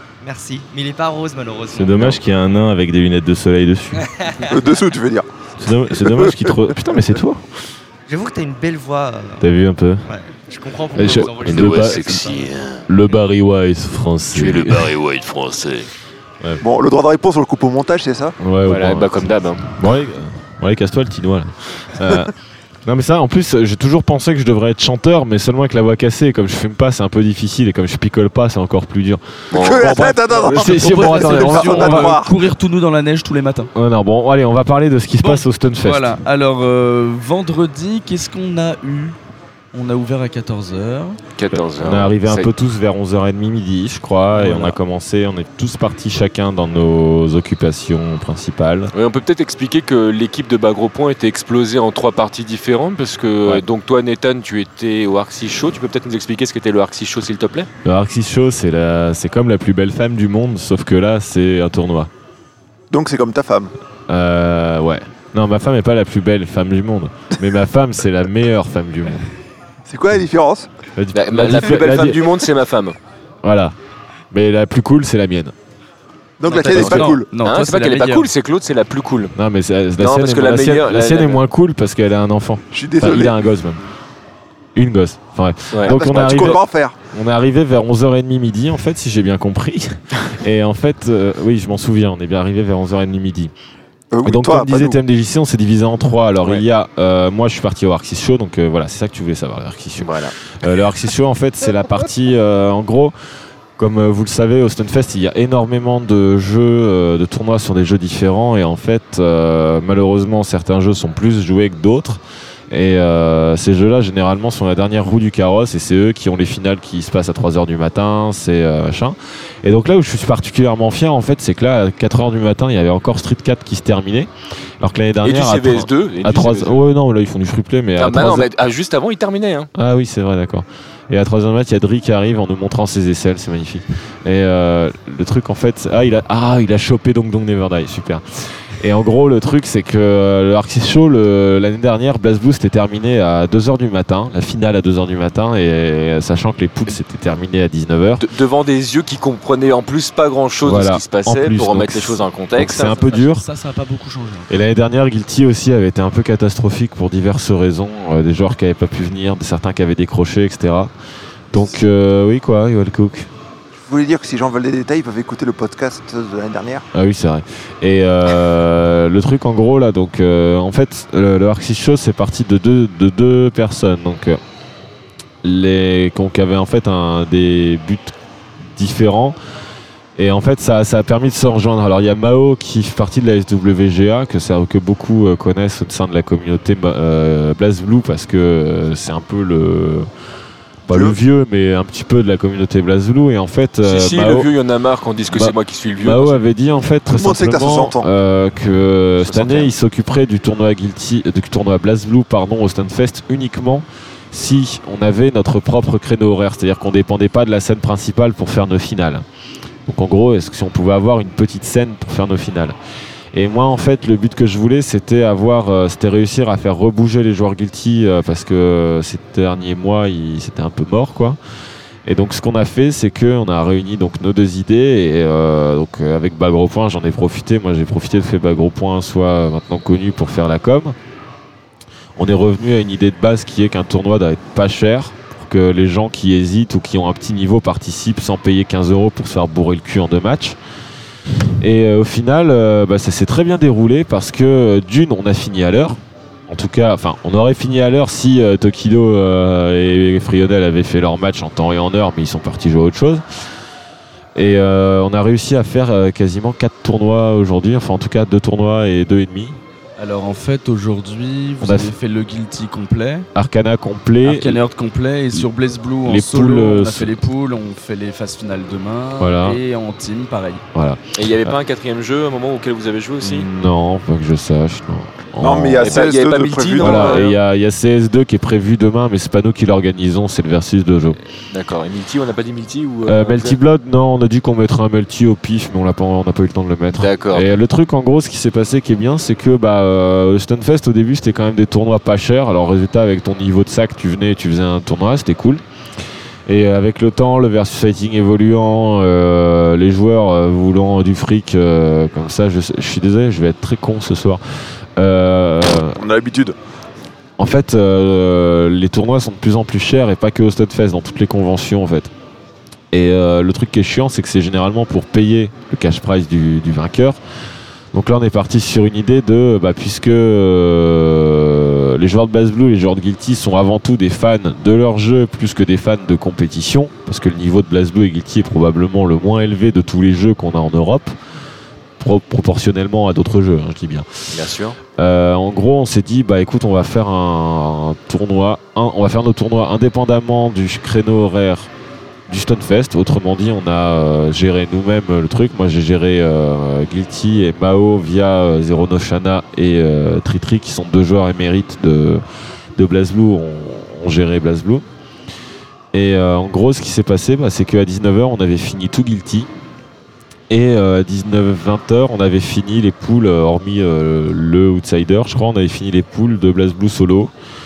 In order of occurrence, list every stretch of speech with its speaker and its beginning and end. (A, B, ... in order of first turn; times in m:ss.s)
0:00.2-0:02.0 A
0:01.7-0:04.0 B
0:04.0-0:04.6 A
0:04.4-0:05.3 C
0:05.6-0:07.4 B
0:06.0-0:06.5 C
0:08.1-0:09.4 A
0:09.4-0:10.0 B
0:10.1-0:12.5 A
0:10.9-0:12.3 B
0:11.0-0:12.8 D
0:12.9-0:14.9 B
0:14.3-0:15.9 D
0:16.6-0:18.3 C
0:18.4-0:19.1 B
0:18.6-0:19.7 D
0:19.7-0:22.3 B
0:22.8-0:32.2 B
0:29.5-0:30.6 D
0:29.6-0:32.4 C
0:30.5-0:33.7 E
0:33.7-0:36.2 B
0:35.2-0:39.2 E
0:39.7-0:41.2 E
0:41.4-0:42.5 D
0:41.6-0:48.9 B
0:44.3-0:44.8 E
0:48.9-0:57.7 D
0:57.8-1:02.1 B
1:02.9-1:03.7 C
1:04.1-1:09.2 B
1:09.9-1:10.7 C
1:11.0-1:12.2 B
1:11.1-1:13.0 D
1:13.4-1:13.7 B
1:14.3-1:15.5 B
1:16.4-1:17.3 C
1:16.5-1:18.3 E
1:16.7-1:19.3 D
1:19.3-1:23.8 B
1:20.0-1:21.4 D
1:22.7-1:23.5 C
1:24.8-1:33.5 B
1:25.7-1:26.6 D
1:25.9-1:26.9 C
1:34.1-1:35.0 C
1:34.2-1:43.1 B
1:40.0-1:40.3 D
1:43.8-2:08.5 B
2:05.2-2:06.8 D
2:08.0-2:09.7 D
2:09.7-2:18.2 B
2:18.8-2:28.2 B
2:28.2-2:33.1 D
2:30.6-2:33.4 B
2:32.9-2:34.5 E
2:34.5-2:40.9 B
2:41.5-2:43.3 B
2:43.8-2:46.8 C
2:46.9-2:54.4 B
2:55.4-2:58.1 B
2:58.7-2:59.4 B
3:00.2-3:10.1 B
3:10.9-3:11.2 C
3:10.9-3:14.5 B
3:13.8-3:16.4 D
3:15.3-3:29.2 B
3:17.1-3:18.1 C
3:19.2-3:19.7 D
3:29.9-3:32.8 B
3:33.3-3:41.4 B
3:42.0-3:50.9 B
3:52.2-4:00.6 B
4:01.6-4:06.0 B
4:06.5-4:13.2 B
4:14.4-4:19.6 B
4:20.0-4:23.3 E
4:21.6-4:21.9 B
4:23.3-4:24.6 B
4:24.2-4:30.6 E
4:26.0-4:27.1 B
4:29.2-4:29.6 B
4:30.7-4:31.5 B
4:31.2-4:33.4 D
4:33.2-4:35.9 B
4:35.4-4:37.2 C
4:35.8-4:37.4 D
4:36.8-4:41.2 B
4:41.5-4:43.6 D
4:43.0-4:55.6 B
4:46.9-4:47.4 D
4:56.5-5:04.4 B
5:05.0-5:06.0 B
5:06.0-5:06.6 C
5:07.4-5:12.1 B
5:12.9-5:17.2 B
5:17.9-5:31.1 B
5:32.0-5:34.3 B
5:34.3-5:34.8 D
5:35.0-5:41.7 B
5:42.3-5:52.2 B
5:52.8-5:54.8 B
5:55.9-5:59.5 B
6:00.5-6:07.3 B